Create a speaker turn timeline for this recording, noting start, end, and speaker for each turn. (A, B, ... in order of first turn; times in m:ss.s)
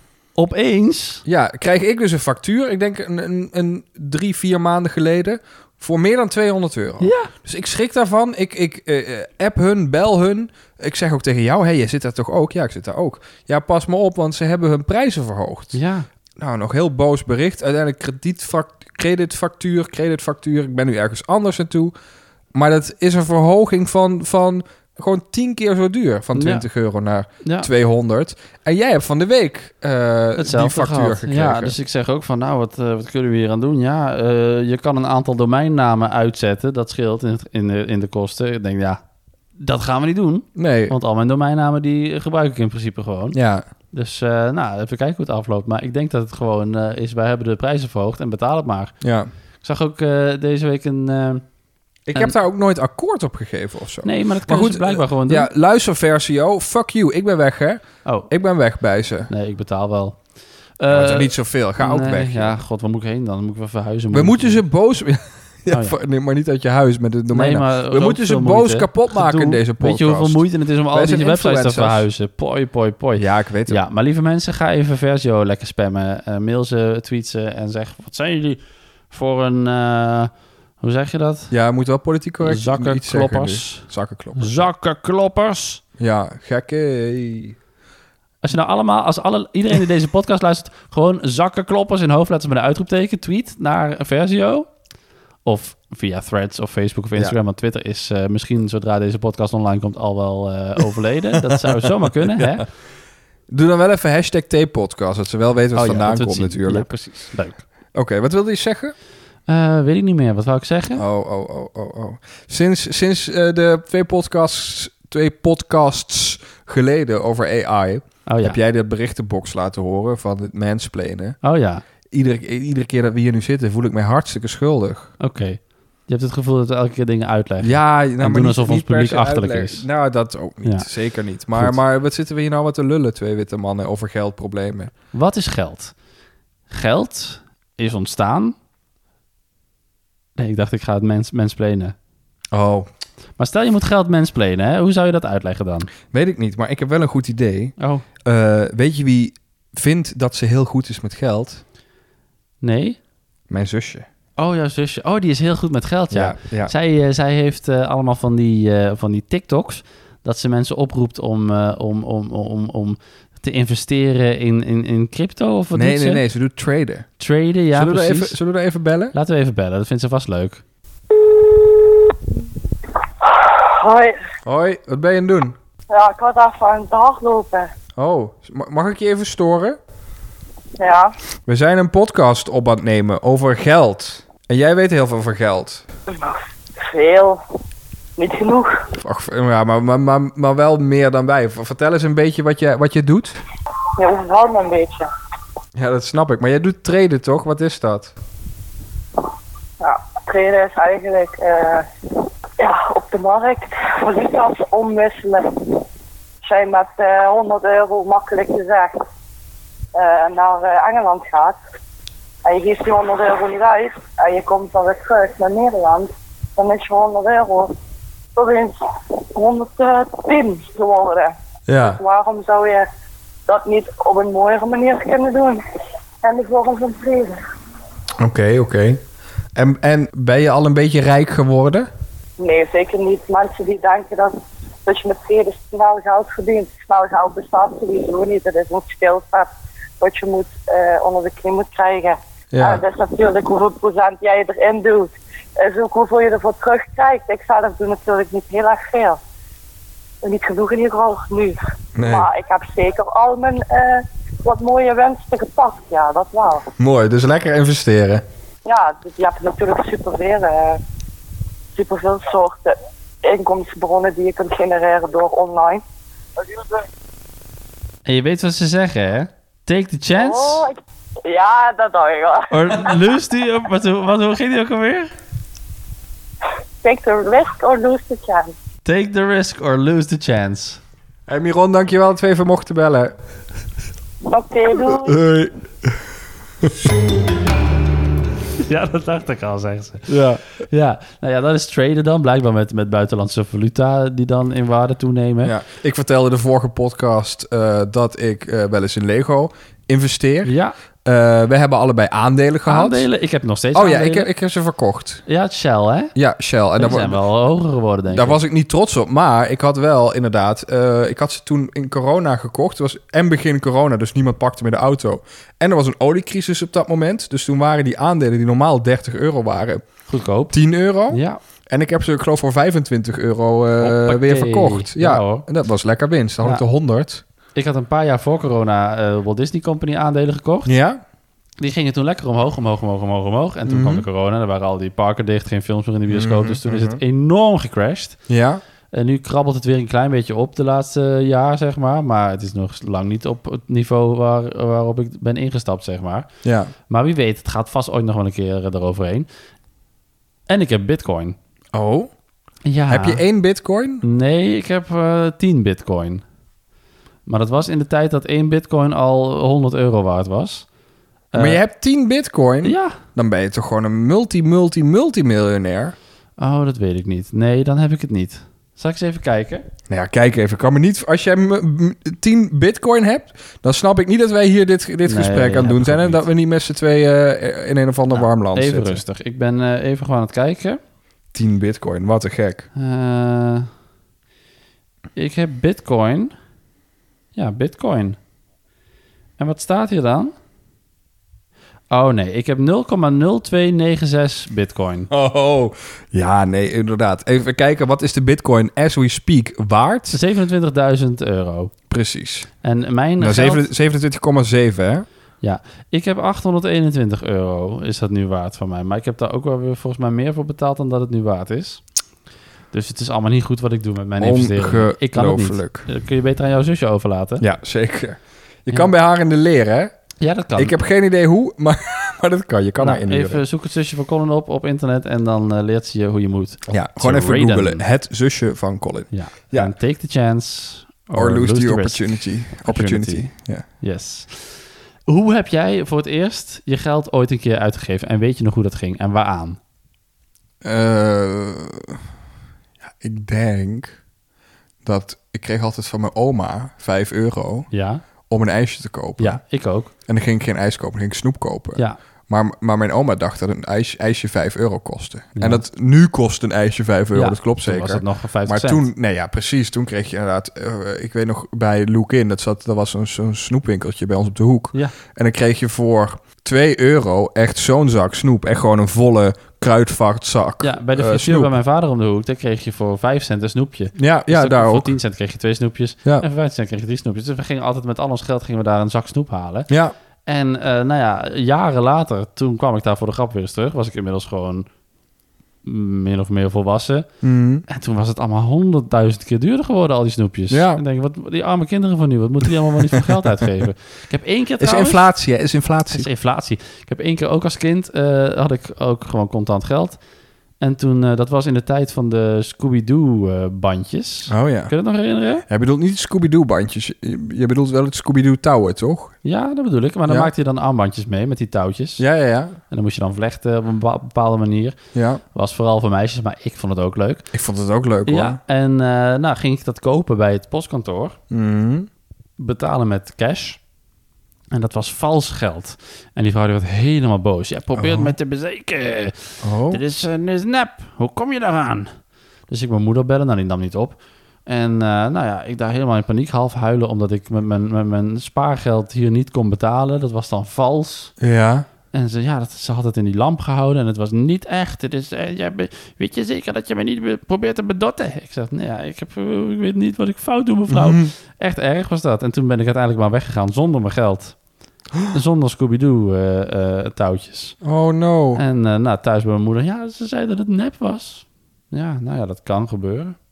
0:00.4-0:01.2 A
0:01.2-0:15.8 B
0:07.0-0:07.3 A
0:15.7-0:16.1 A
0:16.4-0:21.9 B
0:22.5-0:31.7 B
0:26.3-0:26.6 A
0:27.4-0:27.7 A
0:30.4-0:39.0 A
0:39.6-0:43.4 A
0:40.5-0:40.9 B
0:43.3-0:43.6 B
0:43.9-0:48.9 A
0:49.0-0:49.3 B
0:49.6-0:51.4 A
0:52.1-0:59.3 B
0:54.0-0:55.5 A
0:59.3-1:00.2 A
1:00.8-1:04.6 A
1:00.9-1:02.6 B
1:04.1-1:12.0 B
1:05.7-1:06.0 A
1:07.3-1:21.5 A
1:13.2-1:13.8 B
1:21.5-1:24.6 B
1:22.4-1:25.8 A
1:26.0-1:27.6 B
1:28.4-1:34.7 A
1:35.4-1:42.6 A
1:41.6-1:42.6 B
1:43.5-1:46.9 B
1:45.7-1:47.6 A
1:47.9-1:48.9 B
1:49.5-1:51.0 A
1:51.0-2:01.4 B
1:58.2-1:58.6 A
2:01.4-2:01.8 A
2:02.1-2:05.1 B
2:05.2-2:09.8 A
2:07.6-2:14.9 B
2:15.1-2:15.9 A
2:16.7-2:18.6 A
2:20.4-2:21.9 A
2:22.5-2:22.9 B
2:23.4-2:25.9 A
2:26.1-2:31.6 B
2:27.8-2:28.0 A
2:32.6-2:33.0 A
2:33.5-2:34.0 B
2:34.4-2:46.2 A
2:36.1-2:36.7 B
2:45.7-2:47.1 B
2:47.2-2:48.4 A
2:47.7-2:49.1 B
2:49.1-2:50.6 A
2:51.2-2:52.1 C
2:53.2-2:54.2 C
2:54.4-2:55.6 B
2:55.9-2:57.7 C
2:58.0-2:59.8 B
3:00.8-3:01.1 C
3:01.5-3:05.8 B
3:06.1-3:07.4 C
3:08.2-3:08.7 C
3:09.0-3:13.4 B
3:14.0-3:15.1 C
3:15.7-3:18.1 B
3:19.8-3:21.9 C
3:22.6-3:25.8 C
3:26.4-3:29.0 C
3:29.9-3:31.6 C
3:32.4-3:37.7 C
3:38.3-3:42.9 C
3:41.7-3:42.0 B
3:43.5-3:45.6 C
3:46.2-3:47.4 C
3:48.2-3:49.0 B
3:49.6-3:51.9 B
3:52.4-4:09.2 C
4:02.5-4:02.8 B
4:10.2-4:16.7 C
4:12.0-4:12.3 B
4:16.8-4:18.2 B
4:18.6-4:20.8 C
4:21.7-4:25.8 C
4:28.0-4:30.6 A
4:30.1-4:33.0 C
4:32.5-4:35.1 A
4:36.8-4:38.5 C
4:38.8-4:40.8 A
4:41.3-4:43.1 B
4:44.3-4:45.2 C
4:44.9-4:46.0 B
4:48.6-4:55.5 A
4:50.1-4:50.4 B
4:55.4-5:00.5 B
5:00.4-5:00.7 A
5:01.0-5:03.1 B
5:02.6-5:04.3 A
5:03.7-5:05.2 B
5:05.3-5:06.1 A
5:06.1-5:07.2 B
5:06.8-5:08.4 A
5:08.1-5:19.8 B
5:20.1-5:20.5 A
5:20.5-5:27.2 B
5:21.1-5:21.4 A
5:23.8-5:25.5 A
5:27.6-5:30.7 A
5:30.6-5:31.0 B
5:31.6-5:38.2 A
5:33.7-5:34.0 B
5:36.1-5:37.0 B
5:38.3-5:38.6 B
5:38.9-5:46.3 A
5:46.4-5:46.7 B
5:46.9-5:49.3 A
5:50.5-5:51.4 A
5:51.7-5:52.1 B
5:52.6-5:53.2 A
5:52.9-5:54.0 B
5:54.0-5:56.2 A
5:57.2-6:00.6 A
6:01.3-6:01.6 A
6:01.3-6:05.9 B
6:02.6-6:03.0 A
6:06.4-6:09.6 A
6:09.9-6:19.0 B
6:15.0-6:16.2 A
6:18.1-6:20.8 A
6:21.3-6:22.7 B
6:22.8-6:23.7 A
6:25.2-6:26.3 A
6:27.3-6:28.2 A
6:29.4-6:30.3 A
6:31.9-6:35.1 A
6:35.1-6:40.2 B
6:40.1-6:41.7 A
6:41.9-6:42.5 B
6:42.6-6:43.6 A
6:43.2-6:45.0 B
6:45.4-6:51.8 A
6:52.7-6:57.4 A
6:54.2-6:55.9 B
6:57.4-6:59.9 B
7:00.2-7:00.8 A
7:00.6-7:03.4 B
7:02.8-7:07.8 A
7:06.7-7:09.7 B
7:09.1-7:19.6 A
7:11.1-7:13.6 B
7:20.6-7:22.0 B
7:22.8-7:24.0 B
7:24.8-7:27.7 B
7:27.7-7:28.0 A
7:28.3-7:29.4 B
7:29.2-7:29.9 A
7:30.1-7:51.5 B
7:35.4-7:35.6 A
7:37.1-7:38.8 A
7:50.6-7:59.7 A
7:54.0-7:54.9 B
7:59.7-7:59.9 B
8:00.2-8:04.6 A
8:05.6-8:07.1 A
8:07.2-8:07.6 B
8:07.7-8:15.1 A
8:10.5-8:10.8 B
8:14.6-8:16.1 B
8:15.9-8:20.0 A
8:20.6-8:25.4 A
8:24.3-8:24.7 B
8:25.5-8:29.1 B
8:29.2-8:32.0 A
8:32.0-8:32.6 B
8:32.7-8:34.8 A
8:34.9-8:35.2 B
8:35.3-8:37.3 A
8:37.3-8:38.4 B
8:38.1-8:41.2 A
8:41.3-8:41.9 B
8:42.4-8:43.6 A
8:44.5-8:51.9 A
8:47.7-8:48.1 B
8:49.4-8:49.8 B
8:52.5-9:01.1 A
9:01.2-9:01.7 B
9:01.9-9:14.4 A
9:10.7-9:11.1 B
9:15.1-9:17.6 A
9:17.6-9:18.4 B
9:18.4-9:23.2 A